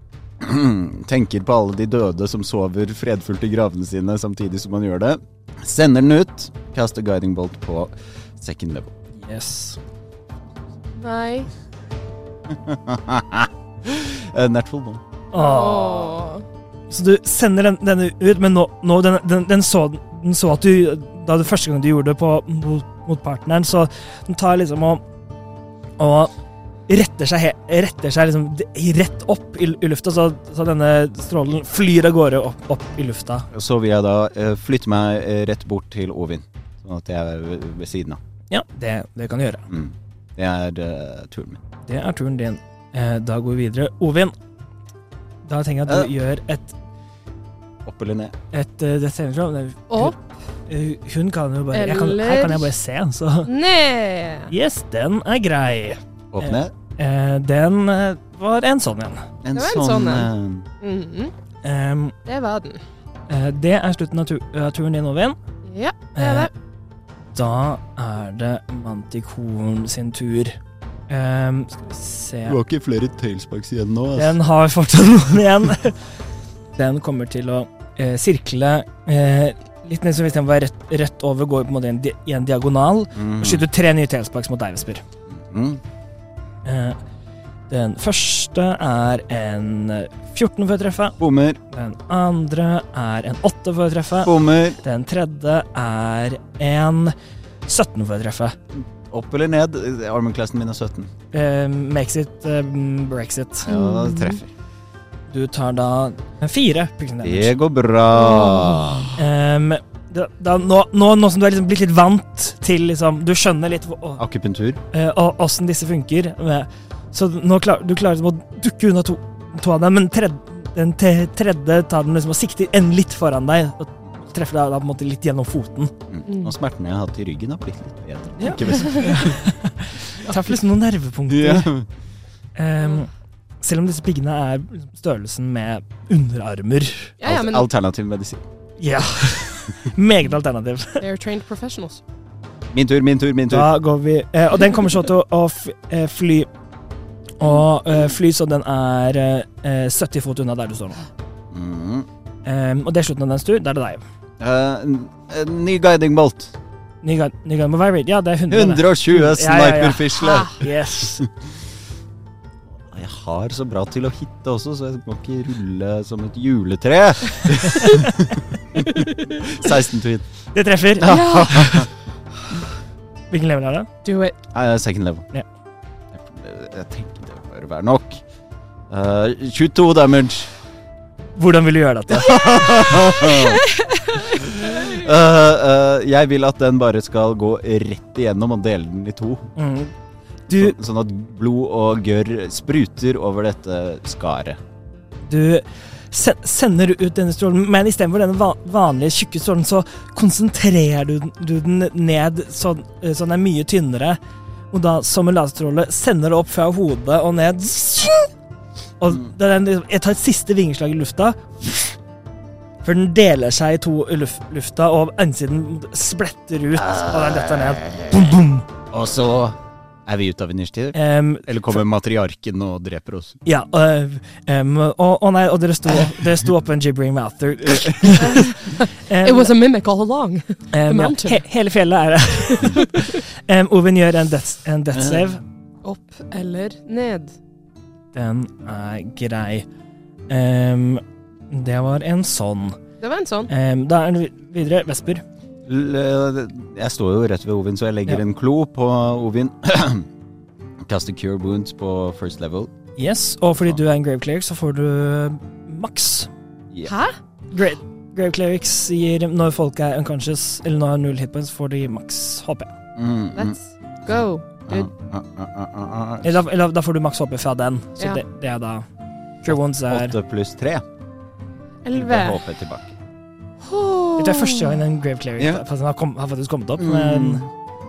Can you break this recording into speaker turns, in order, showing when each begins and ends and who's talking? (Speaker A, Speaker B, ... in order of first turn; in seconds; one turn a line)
Speaker A: 0.4-8.9
Speaker B: 9.2-9.8
Speaker C: 11.0-11.5
Speaker A: 12.5-15.0
Speaker B: 15.3-16.2
Speaker C: 15.3-16.4
Speaker B: 16.9-25.0
Speaker B: 26.0-26.3
Speaker B: 26.9-33.5
Speaker A: 33.5-38.2
Speaker B: 38.5-39.7
Speaker A: 39.7-41.6
Speaker B: 41.9-44.3
Speaker B: 45.5-46.8
Speaker A: 47.9-48.4
Speaker B: 48.5-50.2
Speaker C: 49.9-50.2
Speaker B: 50.7-53.5
Speaker C: 51.7-52.7
Speaker C: 53.5-54.5
Speaker B: 54.5-59.3
Speaker A: 56.3-56.7
Speaker A: 59.4-60.7
Speaker C: 59.5-60.3
Speaker C: 60.8-61.3
Speaker B: 61.6-62.2
Speaker C: 62.2-62.8
Speaker B: 63.3-65.4
Speaker C: 65.7-66.5
Speaker B: 66.2-66.5
Speaker B: 67.3-72.6
Speaker A: 72.5-74.4
Speaker B: 74.2-76.1
Speaker B: 76.7-85.0
Speaker A: 83.2-83.7
Speaker A: 85.3-85.8
Speaker B: 86.7-87.0
Speaker B: 87.7-91.2
Speaker A: 91.2-91.6
Speaker B: 91.7-97.2
Speaker A: 94.2-94.8
Speaker B: 97.7-98.6
Speaker A: 98.8-101.1
Speaker B: 101.3-103.7
Speaker A: 103.7-104.5
Speaker C: 103.7-104.4
Speaker B: 105.3-107.5
Speaker A: 107.2-109.2
Speaker C: 108.2-109.0
Speaker B: 109.2-114.2
Speaker A: 114.2-114.8
Speaker B: 114.9-125.9
Speaker A: 126.1-129.4
Speaker C: 126.3-126.5
Speaker B: 128.4-131.7
Speaker A: 131.3-131.9
Speaker B: 132.6-133.1
Speaker B: 133.6-137.2
Speaker C: 137.2-137.7
Speaker A: 137.2-138.4
Speaker B: 138.8-141.0
Speaker C: 141.0-142.0
Speaker A: 142.7-143.7
Speaker B: 143.5-146.5
Speaker B: 147.4-151.0
Speaker A: 151.5-152.1
Speaker B: 152.4-154.0
Speaker A: 154.4-156.5
Speaker B: 157.0-161.3
Speaker A: 158.5-160.6
Speaker A: 162.9-170.2
Speaker B: 167.8-168.1
Speaker B: 170.5-171.9
Speaker A: 171.0-171.9
Speaker C: 171.1-171.6
Speaker B: 173.3-173.9
Speaker C: 174.0-174.4
Speaker A: 174.5-175.3
Speaker A: 176.1-178.2
Speaker A: 178.9-180.5
Speaker B: 181.4-183.1
Speaker A: 182.1-183.6
Speaker C: 183.4-184.2
Speaker A: 184.5-189.5
Speaker B: 189.6-189.9
Speaker A: 190.5-194.6
Speaker B: 190.5-190.8
Speaker B: 195.2-204.2
Speaker B: 204.7-208.3
Speaker B: 209.0-212.0
Speaker B: 212.8-218.7
Speaker A: 216.8-218.3
Speaker A: 218.9-223.4
Speaker B: 220.9-221.8
Speaker B: 223.4-229.5
Speaker C: 228.2-231.4
Speaker B: 230.7-235.4
Speaker C: 232.7-233.1
Speaker A: 234.9-235.3
Speaker C: 235.8-237.3
Speaker B: 238.1-239.7
Speaker B: 240.3-242.8
Speaker C: 243.0-243.5
Speaker B: 243.5-245.2
Speaker A: 245.7-250.1
Speaker A: 250.8-252.7
Speaker B: 253.0-256.3
Speaker C: 256.9-257.2
Speaker B: 257.5-262.7
Speaker A: 263.0-263.6
Speaker C: 263.3-264.9
Speaker A: 264.7-266.4
Speaker B: 266.2-268.9
Speaker B: 269.4-270.1
Speaker A: 269.5-270.9
Speaker C: 271.9-272.4
Speaker A: 271.9-272.9
Speaker C: 273.6-274.8
Speaker B: 274.2-277.4
Speaker A: 275.4-275.6
Speaker A: 276.8-277.5